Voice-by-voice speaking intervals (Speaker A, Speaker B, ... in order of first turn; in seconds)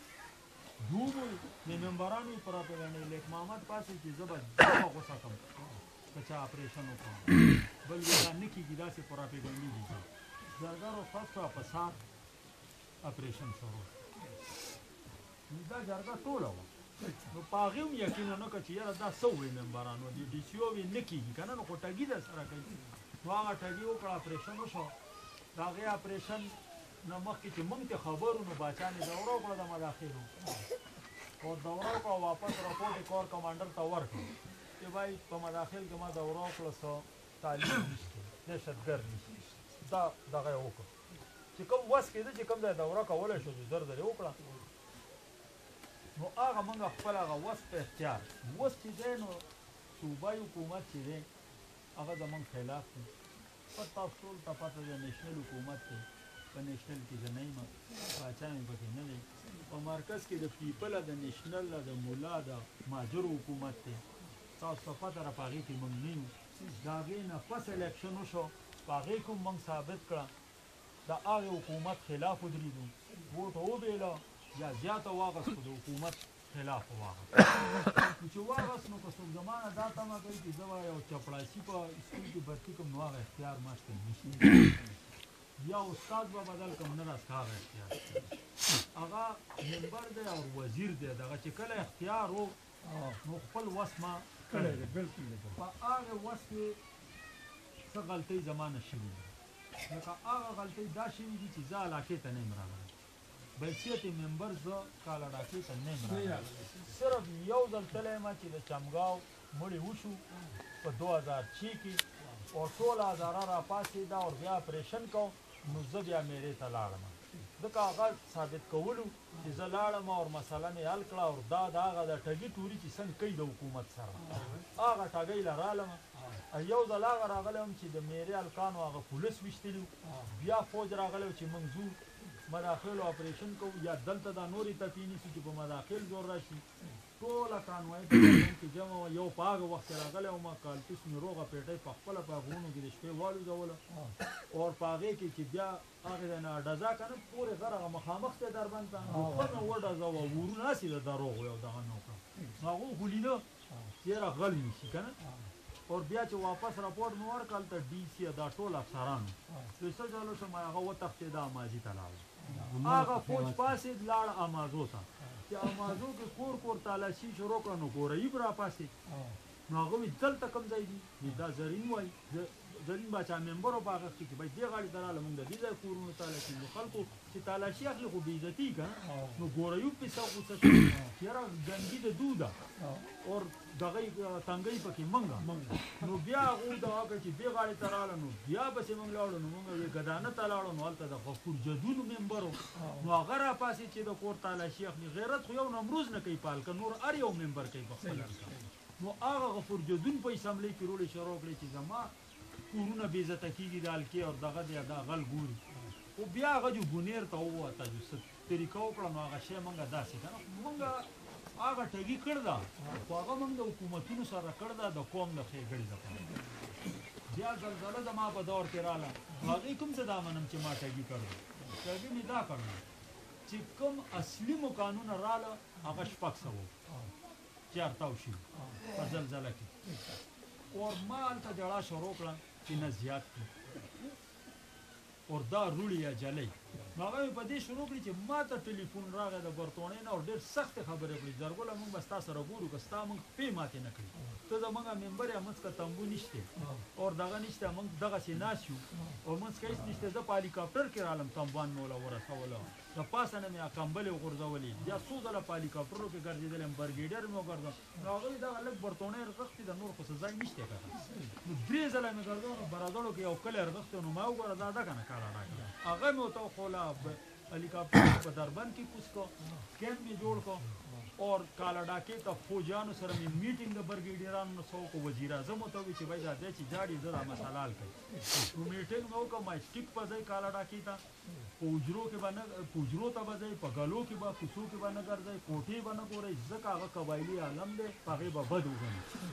Speaker A: 0.8-5.4, 6.1-12.0, 13.0-13.9, 15.5-16.7, 17.3-22.7, 23.2-24.9, 25.5-30.3, 31.4-40.9, 41.5-44.4, 46.1-51.3, 52.0-53.1, 53.7-64.0, 64.6-70.3, 71.0-84.7, 85.6-88.3, 88.9-92.6, 93.2-95.0, 95.5-96.8, 97.8-99.3, 99.9-102.9, 103.6-110.2, 110.8-136.6, 137.2-143.8, 144.5-153.4, 154.0-155.2, 155.9-162.3, 162.8-168.9, 169.7-182.6, 183.2-202.1, 202.7-205.6, 206.2-216.3, 217.3-222.8, 223.5-226.7, 227.7-229.7, 230.7-233.5, 235.3-281.0, 281.6-289.1
Speaker B: 92.9-93.1, 94.6-95.5, 106.3-106.7, 124.3-124.6, 162.4-163.2, 185.5-185.9